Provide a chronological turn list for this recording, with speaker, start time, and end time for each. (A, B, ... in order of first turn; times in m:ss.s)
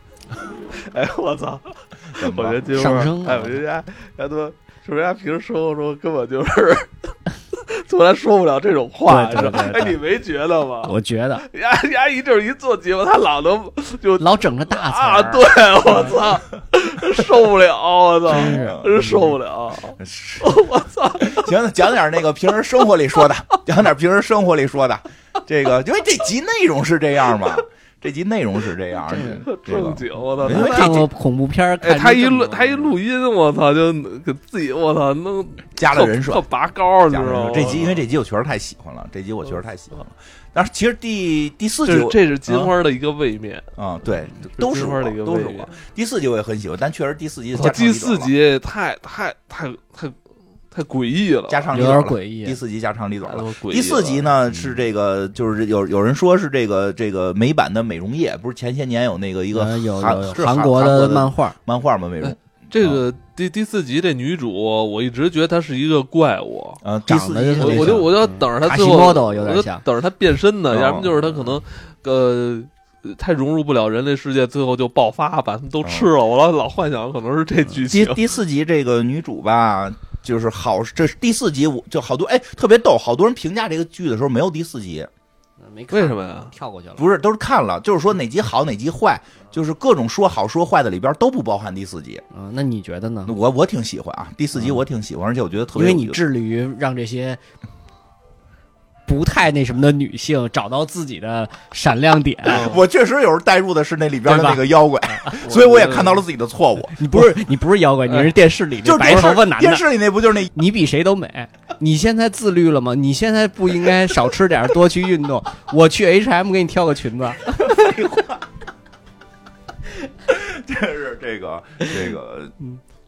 0:00.4-0:21.5 A
0:02.1-0:02.8 B
0:02.7-0:03.6 C
0:09.1-0:10.0 C
0:10.8-0:11.5 C
0:14.2-0:16.2 C
0:18.3-0:19.2 C
0:18.3-0:19.3 B
0:20.0-0:20.6 B
0:21.2-0:31.1 B
0:29.1-0:29.5 C
0:29.1-0:31.1 A
0:30.5-0:32.9 C
0:31.8-0:38.0 A
0:35.8-0:36.4 B
0:37.1-0:42.7 B
0:41.9-0:43.7 A
0:43.8-0:48.3 B
0:44.6-0:45.7 A
0:47.5-0:50.2 A
0:50.7-0:51.7 A
0:51.5-1:03.0 B
0:51.7-0:52.6 C
0:53.2-0:54.3 A
0:59.5-1:01.6 C
1:02.2-1:06.8 A
1:06.8-1:08.1 B
1:07.1-1:09.8 C
1:07.6-1:18.3 A
1:10.7-1:11.2 B
1:15.8-1:16.1 B
1:17.8-1:25.1 B
1:25.6-1:27.1 C
1:25.9-1:26.5 A
1:27.0-1:32.2 B
1:32.3-1:33.4 C
1:33.3-1:36.2 B
1:35.8-1:37.4 C
1:39.1-1:42.8 C
1:42.5-1:47.3 B
1:44.3-1:45.4 C
1:45.4-1:46.2 A
1:47.0-1:49.9 C
1:48.8-1:50.5 B
1:50.4-1:58.0 C
1:57.5-1:58.4 B
2:00.2-2:02.6 B